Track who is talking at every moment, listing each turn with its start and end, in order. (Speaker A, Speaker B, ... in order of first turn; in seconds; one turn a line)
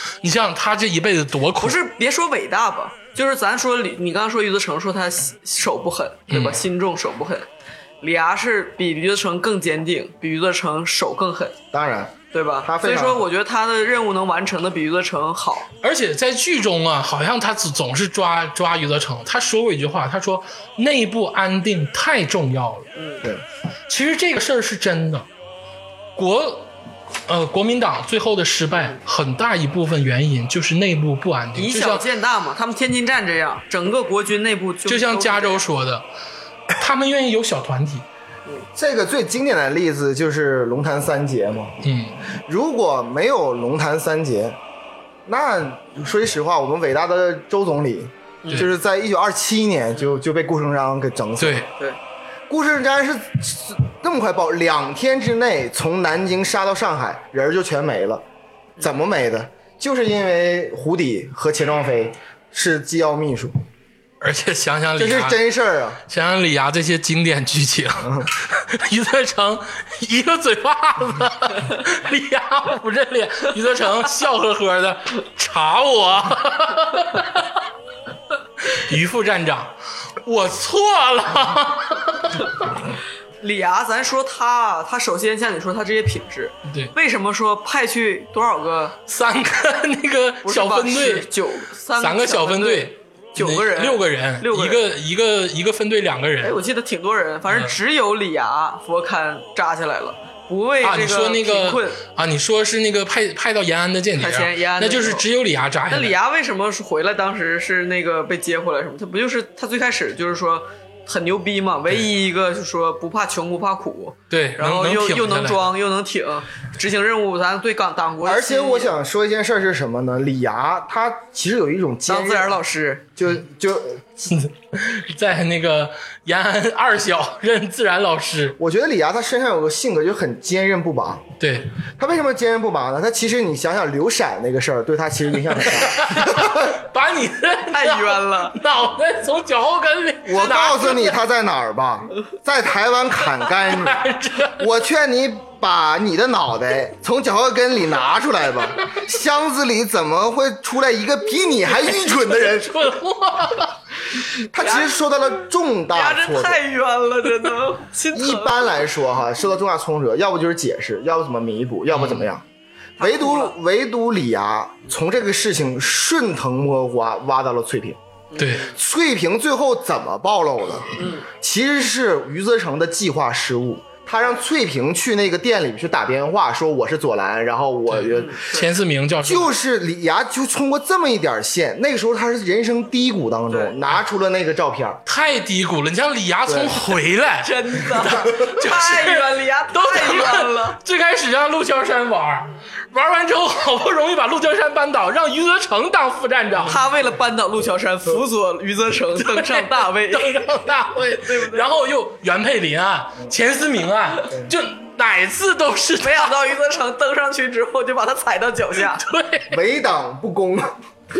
Speaker A: 0.2-1.8
Speaker B: 1.6-7.5
Speaker A: 6.3-6.6
Speaker B: 8.0-11.6
Speaker C: 11.7-13.3
Speaker B: 12.3-15.7
Speaker A: 15.8-22.9
Speaker B: 23.0-23.2
Speaker A: 23.9-25.3
Speaker A: 26.2-26.7
Speaker A: 27.3-32.1
Speaker B: 28.7-29.0
Speaker B: 31.6-35.6
Speaker A: 34.9-36.1
Speaker A: 36.7-38.0
Speaker C: 38.8-41.9
Speaker A: 41.8-42.2
Speaker C: 42.4-44.6
Speaker C: 45.3-51.7
Speaker A: 51.4-51.7
Speaker C: 52.5-58.2
Speaker C: 58.8-63.6
Speaker A: 64.2-65.4
Speaker C: 65.0-66.0
Speaker A: 66.1-77.6
Speaker C: 68.0-68.3
Speaker A: 78.7-82.8
Speaker B: 83.4-89.0
Speaker A: 86.7-86.9
Speaker A: 89.1-91.3
Speaker B: 90.4-94.8
Speaker A: 92.0-96.6
Speaker B: 96.4-102.0
Speaker A: 100.8-106.2
Speaker B: 104.2-105.2
Speaker B: 105.9-119.0
Speaker A: 114.3-115.8
Speaker C: 118.2-122.6
Speaker B: 122.1-123.1
Speaker C: 123.2-124.3
Speaker A: 124.3-128.6
Speaker C: 128.6-131.3
Speaker A: 131.4-131.7
Speaker C: 132.0-136.8
Speaker A: 135.6-141.2
Speaker B: 137.7-138.6
Speaker C: 140.2-144.0
Speaker A: 143.6-144.7
Speaker C: 144.6-152.9
Speaker A: 151.9-153.8
Speaker C: 154.5-156.6
Speaker B: 154.6-155.0
Speaker B: 155.9-158.9
Speaker C: 158.1-162.4
Speaker A: 161.9-162.3
Speaker B: 163.0-163.5
Speaker C: 163.0-168.0
Speaker B: 168.3-168.8
Speaker A: 168.4-168.7
Speaker C: 168.7-178.4
Speaker B: 171.0-171.3
Speaker A: 177.9-179.6
Speaker B: 178.1-178.7
Speaker C: 179.2-185.0
Speaker B: 183.5-183.8
Speaker A: 185.1-196.8
Speaker C: 186.5-186.8
Speaker B: 187.4-190.8
Speaker B: 196.7-200.5
Speaker A: 199.2-206.3
Speaker B: 201.2-201.7
Speaker B: 206.0-209.0
Speaker A: 208.9-209.6
Speaker C: 209.5-210.8